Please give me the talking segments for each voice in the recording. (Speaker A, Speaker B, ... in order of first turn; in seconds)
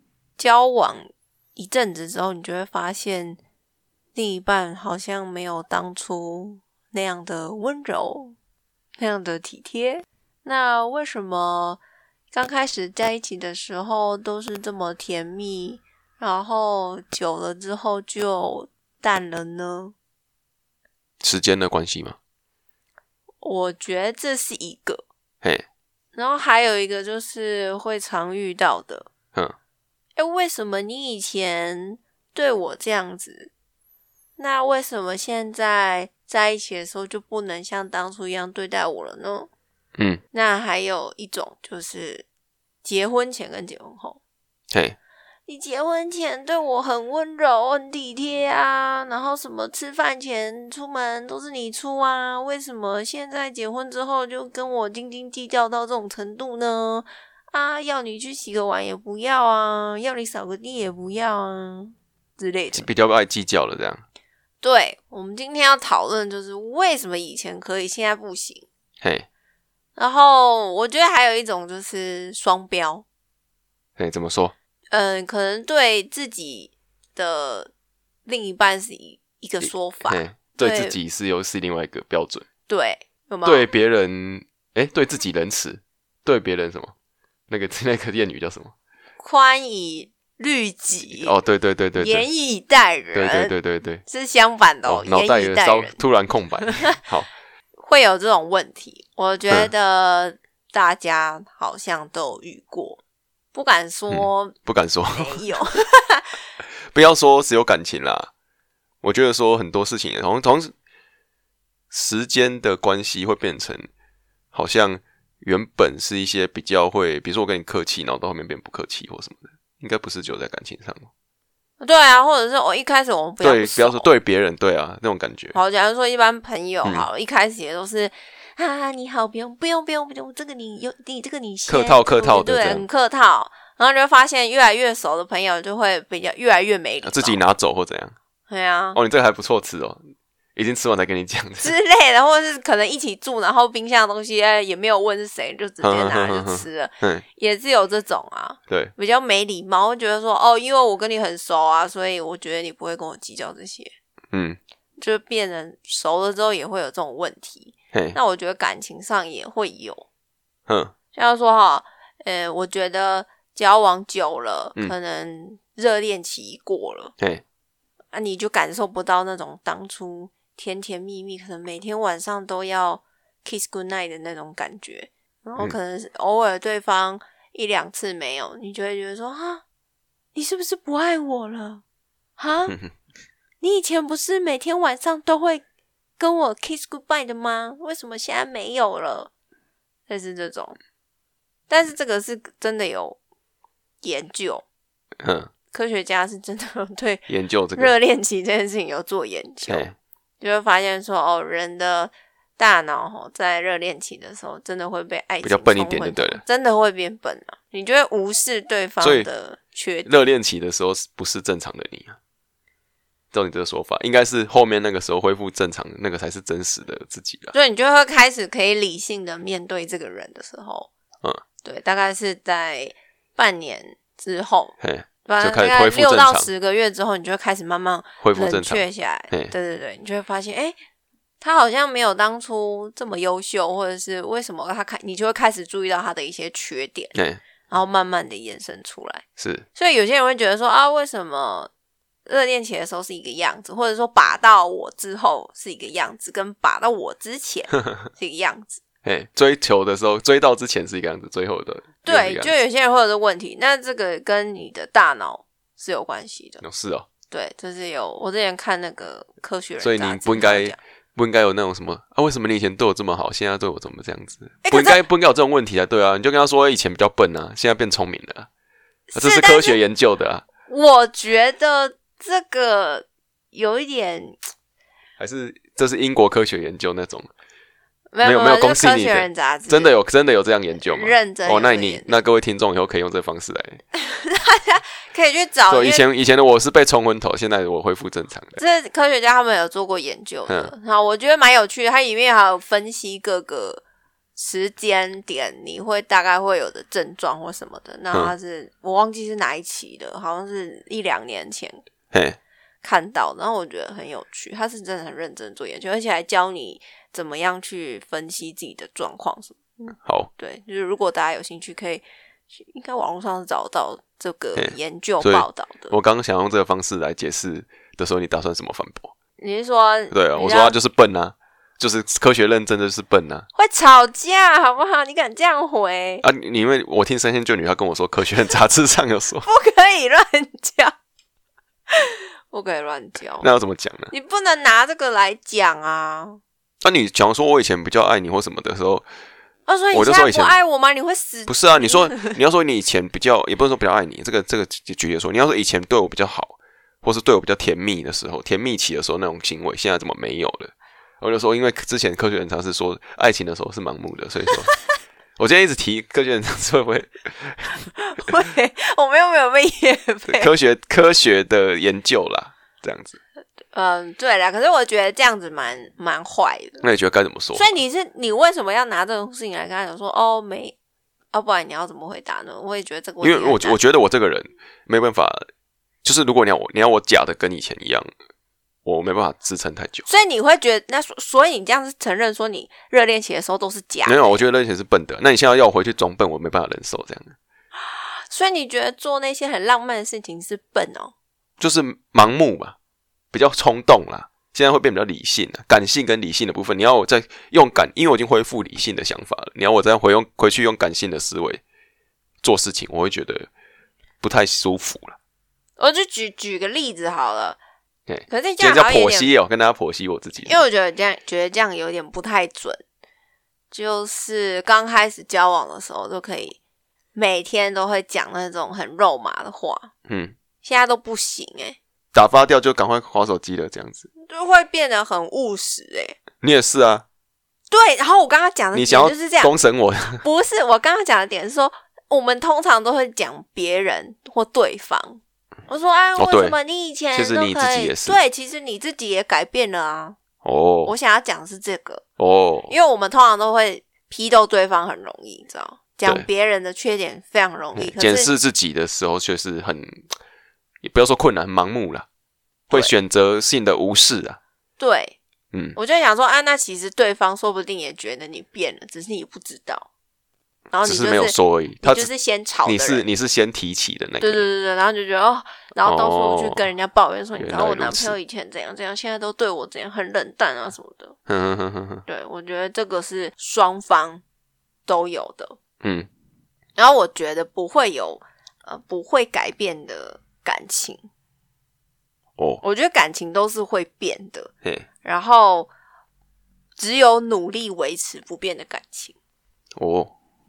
Speaker A: 0.4-3.4, 4.2-8.4, 9.0-11.8, 12.3-19.9, 23.4-25.0, 26.1-29.1, 30.2-33.5, 34.4-39.5, 40.3-42.3, 42.8-44.2, 45.5-62.9, 64.6-68.7, 70.0-73.0, 74.9-77.7, 78.3-81.0, 82.7-83.7, 89.2-91.3, 92.0-93.5, 94.1-96.0, 96.6-96.9, 97.8-103.0, 103.5-104.5, 105.1-106.4, 121.8-124.1, 125.5-137.4, 138.5-139.0, 141.6-153.9, 155.0-160.1, 161.1-167.1, 168.1-179.6, 180.3-181.8, 182.4-182.8, 183.6-185.6, 186.2-189.3, 190.1-190.8, 191.7-193.2, 194.0-194.7, 195.7-199.9, 200.4-210.1, 217.5-220.9, 221.6-230.8, 231.4-237.2, 237.7-239.2, 239.8-241.7, 242.3-248.8, 252.0-256.6, 257.3-260.8, 264.6-265.0, 269.1-269.8, 270.7-274.4, 278.1-279.9, 280.9-282.2, 283.9-286.0, 288.6-293.8, 294.4-301.8, 302.8-315.9, 319.4-320.8, 323.6-326.2, 329.4-330.9, 331.9-333.5, 334.1-336.4, 339.7-342.4, 357.8-360.5, 363.7-366.9, 367.6-370.8, 371.3-373.8, 380.1-384.4, 387.8-391.1, 405.8-407.6, 408.3-409.3, 410.4-412.8, 413.7-416.6, 417.1-419.9, 420.6-421.8, 424.3-426.2, 427.7-429.5, 430.2-440.2, 440.8-442.0, 442.7-448.3, 454.8-455.2, 455.8-459.9, 460.7-463.1, 464.2-471.2, 472.1-474.2, 474.9-475.6, 476.8-481.0, 482.6-484.5, 485.0-485.7, 486.8-489.1
Speaker B: 21.2-22.2, 44.7-45.0, 62.7-64.0, 69.0-69.3, 74.0-74.5, 79.6-82.5, 83.4-86.9, 87.5-88.7, 91.2-92.3, 93.2-94.0, 94.9-97.3, 104.1-105.4, 106.8-108.3, 109.0-110.7, 111.9-113.9, 114.5-121.1, 123.4-125.6, 131.7-132.8, 137.0-138.2, 138.9-140.0, 140.6-141.8, 145.8-147.2, 148.7-148.9, 154.3-154.6, 157.9-158.2, 160.7-160.9, 195.2-195.5, 197.3-197.9, 199.7-200.0, 205.4-206.4, 209.0-209.3, 210.1-212.2, 213.3-217.5, 224.8-226.5, 228.2-229.5, 237.2-237.4, 239.4-239.7, 249.0-252.5, 256.6-257.1, 259.8-268.5, 269.2-270.4, 275.2-277.3, 278.2-283.8, 285.7-288.6, 290.5-290.7, 302.1-302.4, 310.0-310.3, 314.6-319.1, 320.1-323.5, 326.2-329.5, 333.4-334.1, 336.8-339.1, 339.9-340.6, 341.5-354.7, 355.4-357.9, 360.3-363.2, 366.8-367.7, 373.2-375.5, 376.0-378.1, 378.9-380.1, 384.1-387.4, 391.6-392.8, 393.3-401.6, 402.4-403.5, 404.2-405.2, 408.1-410.6, 420.1-420.4, 422.1-424.1, 426.4-427.1, 428.7-430.2, 436.2-436.6, 437.1-438.2, 440.4-440.9, 442.2-442.7, 447.8-450.1, 450.8-452.1, 452.7-454.4, 460.9-462.1, 462.6-464.5, 465.8-466.6, 467.4-468.1, 471.3-472.1, 475.8-476.1, 489.8-490.1